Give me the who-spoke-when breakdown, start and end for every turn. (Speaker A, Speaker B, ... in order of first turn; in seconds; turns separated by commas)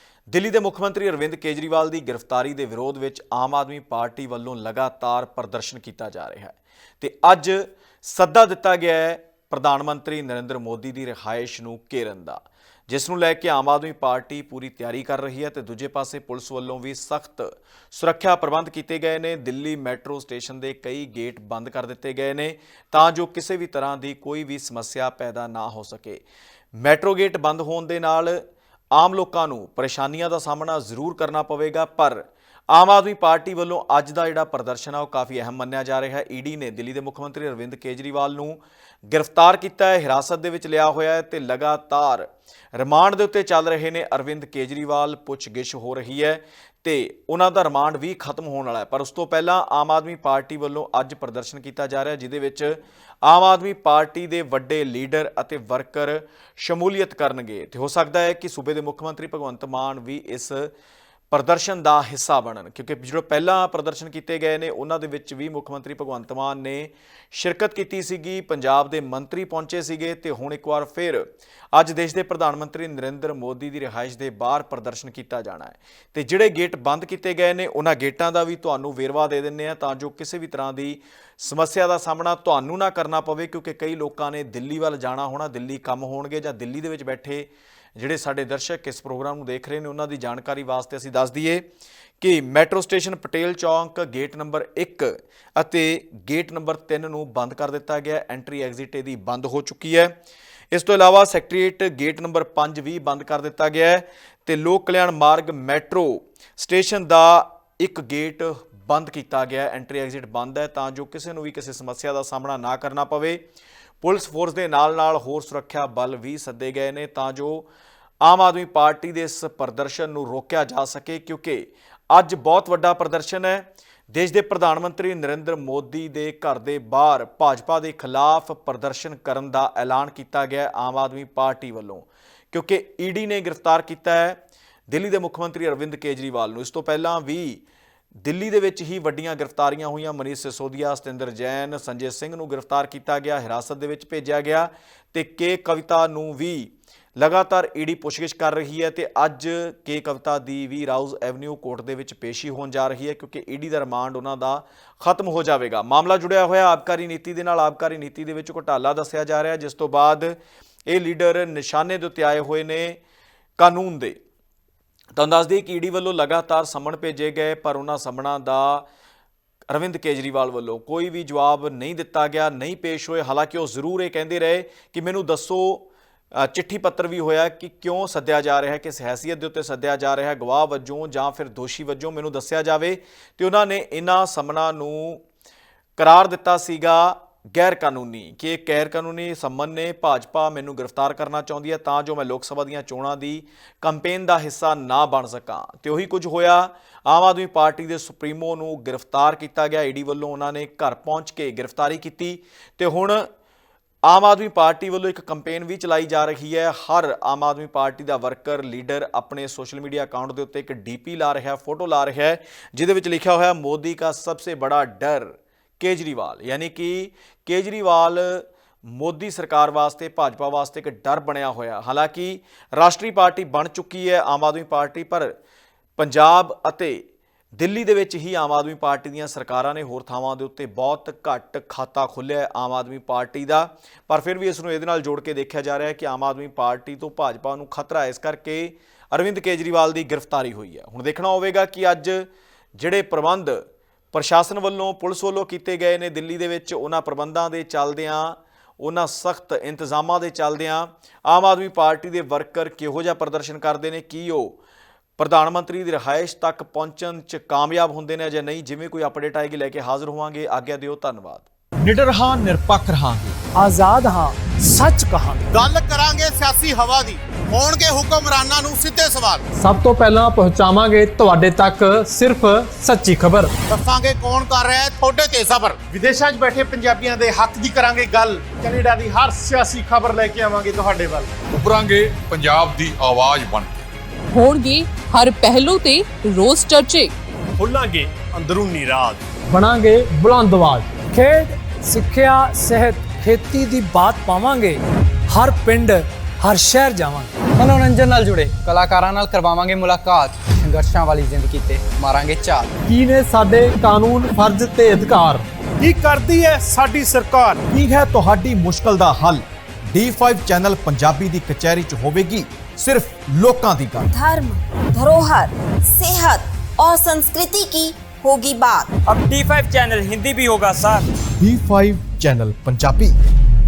Speaker A: 0.3-26.2, Speaker A: 26.8-60.7, Speaker A: 61.3-91.6, Speaker A: 92.2-100.1, Speaker A: 100.7-113.4, Speaker A: 114.0-117.7, Speaker A: 118.2-137.6, Speaker A: 138.2-160.3, Speaker A: 160.9-163.0, Speaker A: 163.6-164.2, Speaker A: 165.2-168.8, Speaker A: 169.7-185.2, Speaker A: 186.0-203.3, Speaker A: 204.1-225.3, Speaker A: 226.0-227.0, Speaker A: 227.6-254.6, Speaker A: 255.2-263.4, Speaker B: 263.6-265.4, Speaker C: 265.5-269.4, Speaker B: 269.6-273.5, Speaker C: 273.7-275.8, Speaker D: 275.9-281.3, Speaker E: 281.5-283.7, Speaker F: 284.3-287.1, Speaker D: 287.6-289.2, Speaker B: 289.5-297.3, Speaker G: 297.6-302.7, Speaker B: 302.9-305.4, Speaker D: 305.8-307.6, Speaker A: 307.7-314.1, Speaker H: 314.0-318.9, Speaker I: 319.1-321.1, Speaker A: 321.4-323.1